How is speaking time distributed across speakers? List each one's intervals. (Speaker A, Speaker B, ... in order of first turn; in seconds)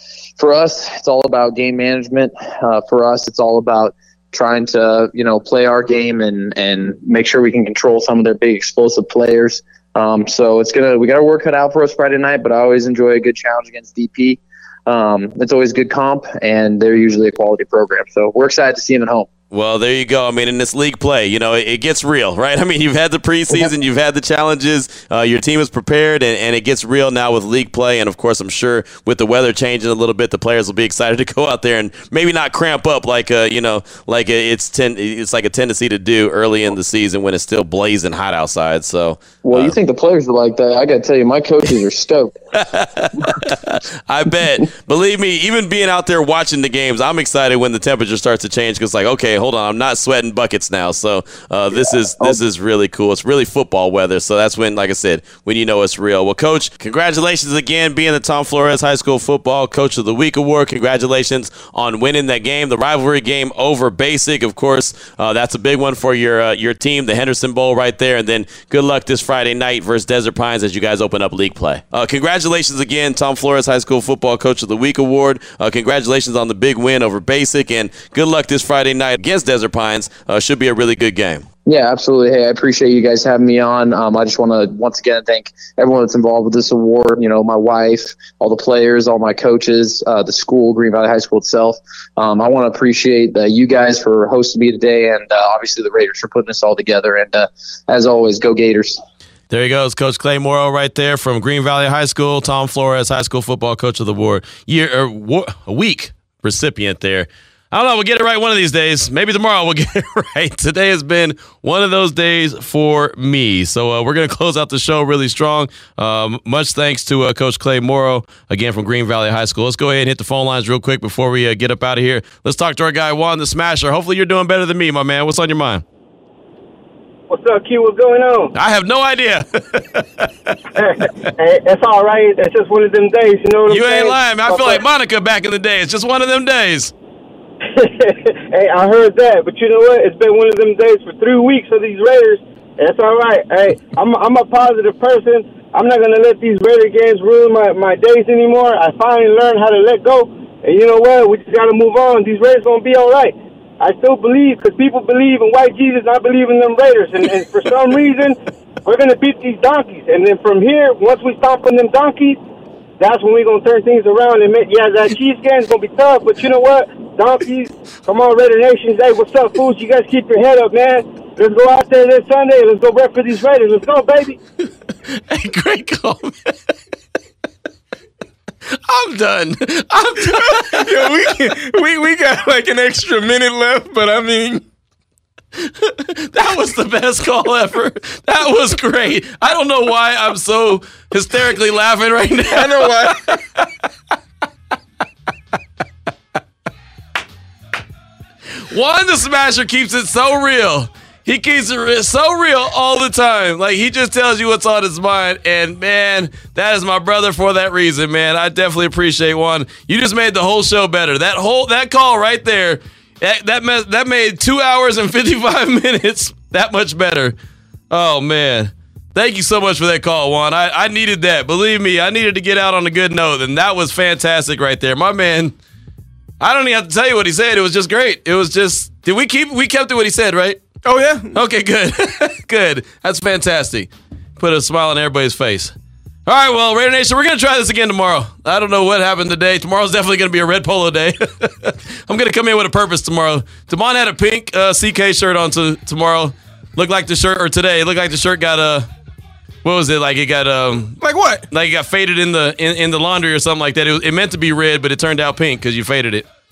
Speaker A: 0.4-19.3, 39.4-42.4, 51.8-52.4, 81.7-99.0
Speaker B: 19.5-39.8, 42.5-81.5, 99.5-125.8, 128.5-131.3, 133.7-136.9, 175.1-176.6, 178.7-181.3, 185.6-193.6, 198.7-217.4, 217.9-225.6, 226.4-230.6, 231.3-235.8, 236.3-248.9, 249.6-256.3
Speaker C: 127.3-128.5, 130.8-134.8, 137.7-162.4, 163.0-174.4
Speaker D: 180.3-184.6, 192.5-193.2, 230.8-231.4, 251.0-251.5